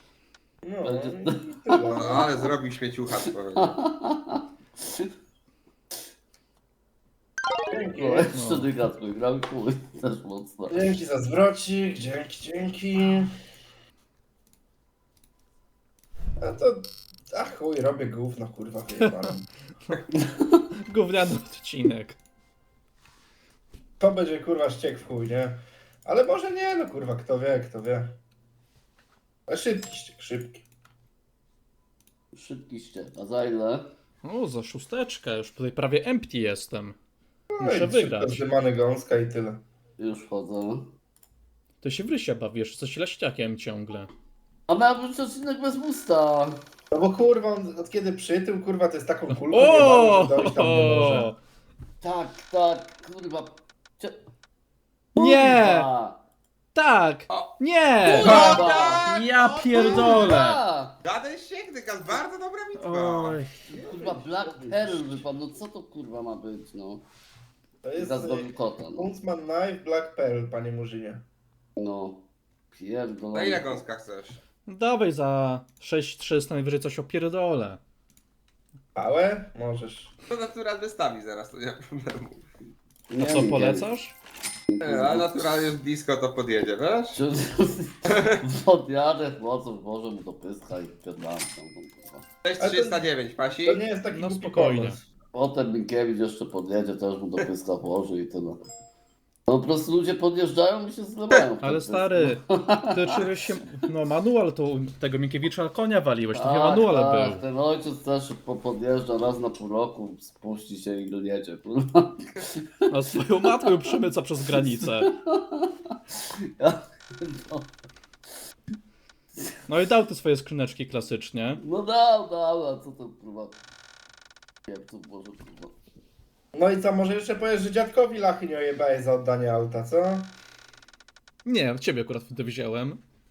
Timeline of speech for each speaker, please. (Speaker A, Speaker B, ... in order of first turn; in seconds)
Speaker A: 0.6-2.2, 7.7-8.3, 10.7-13.3, 16.4-19.5, 24.0-28.2, 29.5-30.6, 37.5-39.6, 46.9-51.3, 58.2-58.7, 63.7-65.2, 67.8-71.2, 79.0-80.1, 92.6-93.0, 93.6-95.0, 126.5-130.3
Speaker B: 0.8-2.6, 3.6-4.4, 7.9-10.8, 32.3-33.9, 40.0-40.9, 44.7-46.6, 52.0-54.2, 55.1-56.2, 58.1-59.1, 59.7-61.0, 63.7-67.0, 68.0-69.1, 71.8-73.8, 83.1-83.9, 84.7-85.5, 87.1-92.2, 95.3-98.6, 99.5-103.1, 106.3-112.6, 113.5-113.9, 114.6-117.7, 121.6-123.6, 124.7-125.8
Speaker C: 1.9-3.7, 58.1-60.4, 61.0-63.4, 73.3-74.4, 80.3-82.4, 84.8-87.2, 88.1-88.4, 92.4-93.8
Speaker D: 8.3-8.8, 20.9-22.2, 34.2-37.0, 37.6-38.5, 41.8-44.1, 49.3-51.4, 55.1-55.9, 56.8-60.6, 62.8-63.7, 74.7-77.8, 83.2-84.2, 94.1-95.0, 101.6-107.4, 112.9-115.1, 119.7-121.6, 131.4-133.0